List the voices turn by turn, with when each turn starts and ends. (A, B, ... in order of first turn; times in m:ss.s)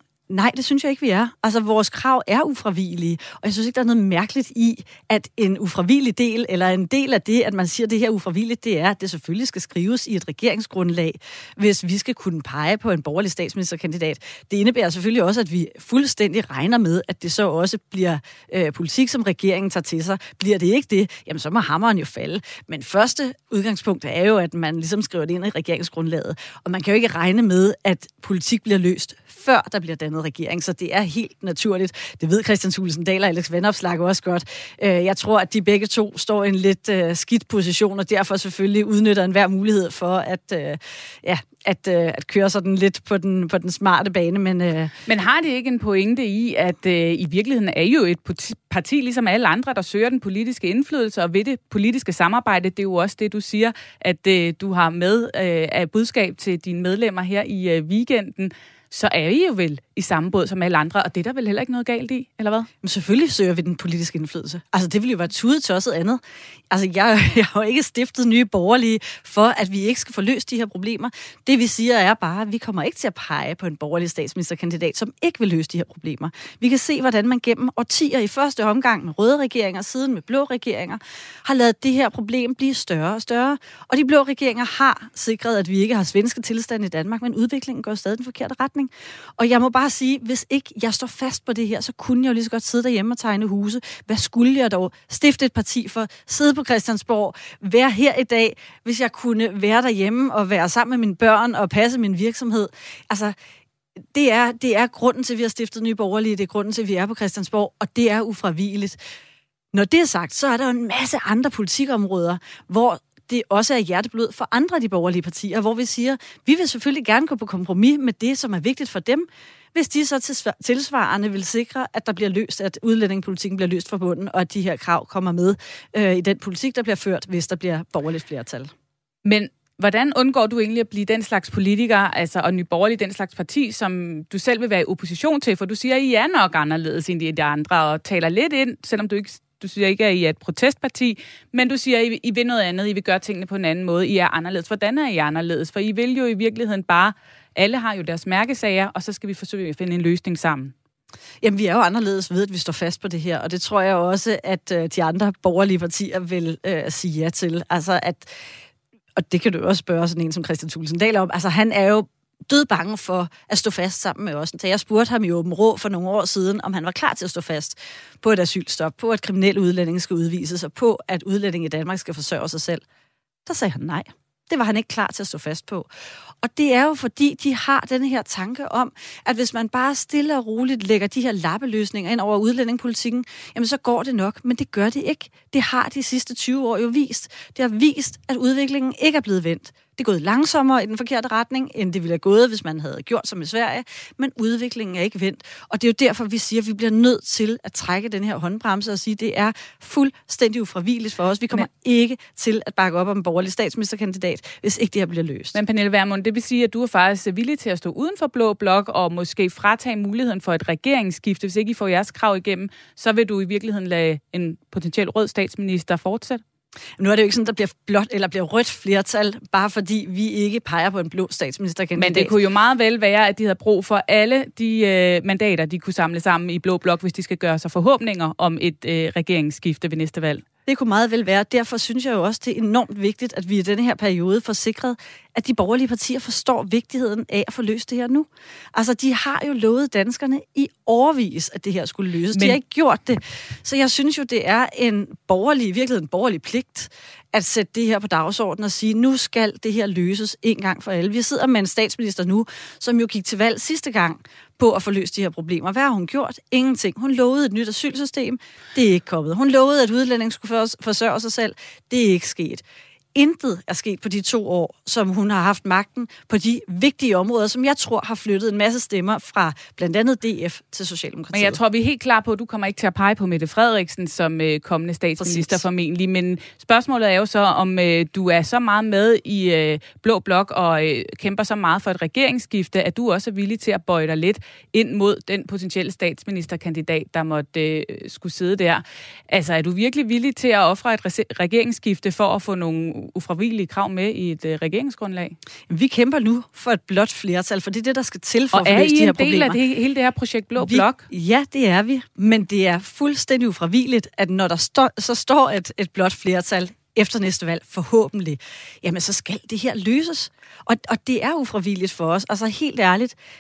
0:00.3-0:44.9 A
0:45.1-1:02.7 B
1:02.8-1:43.3 A
1:44.1-1:49.0 A
1:49.7-2:08.7 A
2:09.2-2:30.7 B
2:31.4-2:38.3 A
2:39.2-2:52.8 A
2:53.5-2:55.9 A
2:56.4-3:25.6 A
3:25.5-3:36.4 B
3:37.0-3:42.3 A
3:42.0-3:50.4 B
3:50.7-4:22.6 A
4:02.3-4:02.6 B
4:23.1-4:31.6 A
4:31.3-4:55.4 B
4:35.2-4:35.6 A
4:55.7-4:59.6 A
4:58.5-5:01.0 B
5:00.6-5:13.2 A